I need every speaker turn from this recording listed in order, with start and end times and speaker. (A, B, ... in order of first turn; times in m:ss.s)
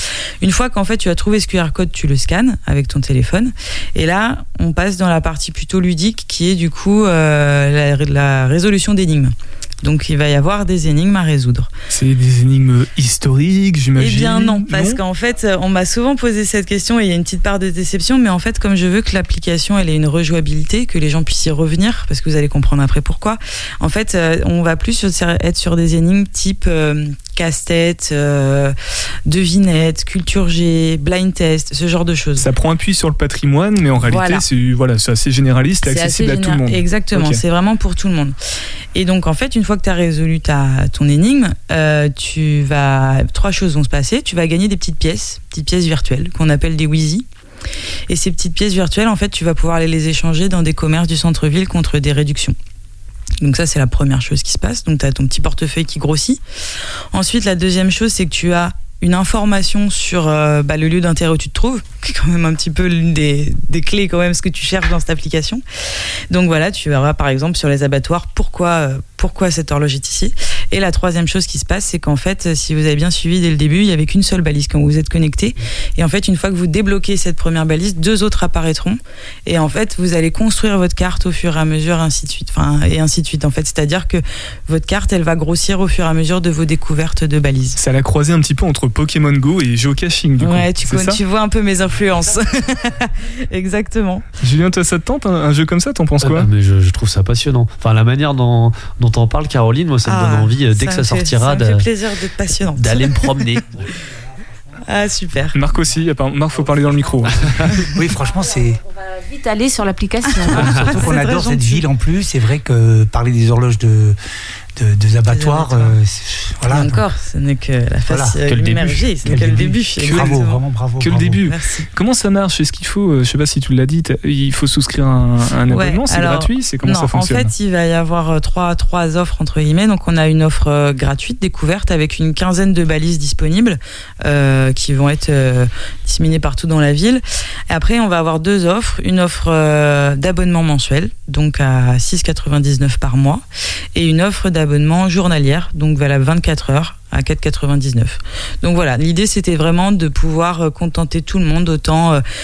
0:00.4-0:11.7 A
0:11.9-0:15.0 B
0:14.0-0:28.7 A
0:29.3-0:32.5 A
0:32.4-0:37.4 B
0:34.0-0:34.4 A
0:35.8-0:38.4 A
0:38.9-0:47.2 A
0:48.1-0:52.6 A
0:53.4-0:56.4 A
0:57.1-1:05.6 A
1:06.3-1:27.8 A
1:27.8-1:31.2 B
1:30.4-1:34.2 A
1:34.4-1:36.5 B
1:36.2-1:41.8 C
1:40.0-1:43.5 A
1:42.8-1:43.6 C
1:44.9-1:45.6 A
1:45.5-1:47.9 B
1:47.8-1:48.8 D
1:48.9-1:50.8 E
1:50.4-1:51.8 A
1:50.5-1:54.2 D
1:54.8-1:57.0 D
1:55.3-1:56.0 A
1:56.6-2:00.6 A
1:58.1-1:58.4 D
1:58.4-1:59.1 C
1:59.2-2:01.4 D
2:00.0-2:00.4 B
2:01.0-2:07.5 B
2:01.4-2:01.9 A
2:05.7-2:32.2 A